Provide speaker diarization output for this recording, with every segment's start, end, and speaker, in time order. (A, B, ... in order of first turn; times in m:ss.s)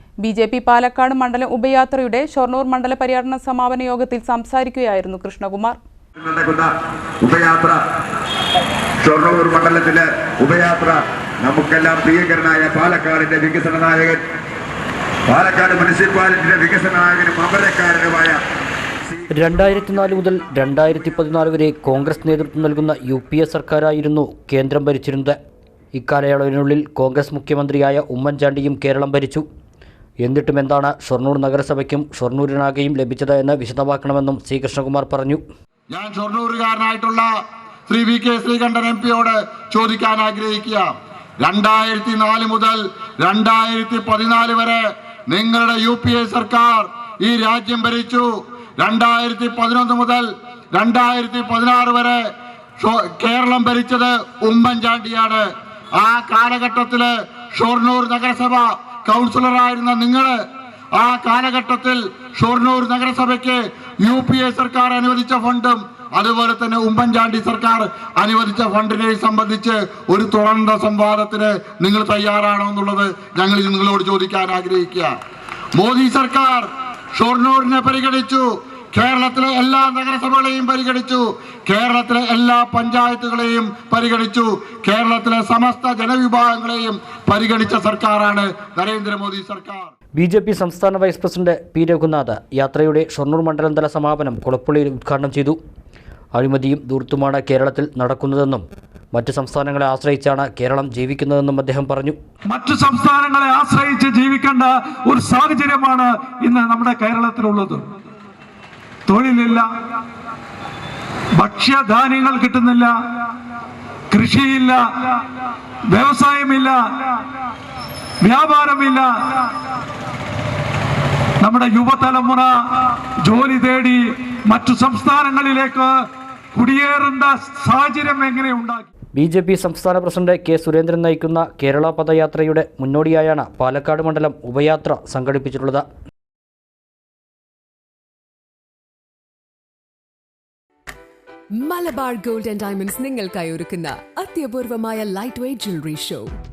0:00.2-0:05.8 A
0:06.2-0:06.7 B
0:07.2-0:07.8 B
0:09.0-0:14.2 B
0:15.3-0:18.4 B
0:19.3-0:25.4 C
0:25.9-0:29.4 C
0:30.2-0:35.4 C
0:35.9-0:37.3 D
0:37.9-0:40.9 D
0:41.4-0:48.3 D
0:48.8-0:52.2 D
0:52.8-0:55.5 D
0:56.0-1:00.4 D
1:01.0-1:15.2 D
1:15.8-1:29.9 D
1:30.2-1:35.6 C
1:36.3-1:42.2 C
1:42.5-1:47.9 E
1:49.1-1:49.7 E
1:51.4-1:52.9 E
1:54.1-1:55.2 E
1:55.9-1:57.2 E
1:58.2-1:59.5 E
2:01.4-2:06.0 E
2:06.5-2:08.9 E
2:09.2-2:15.8 C
2:21.6-2:26.3 F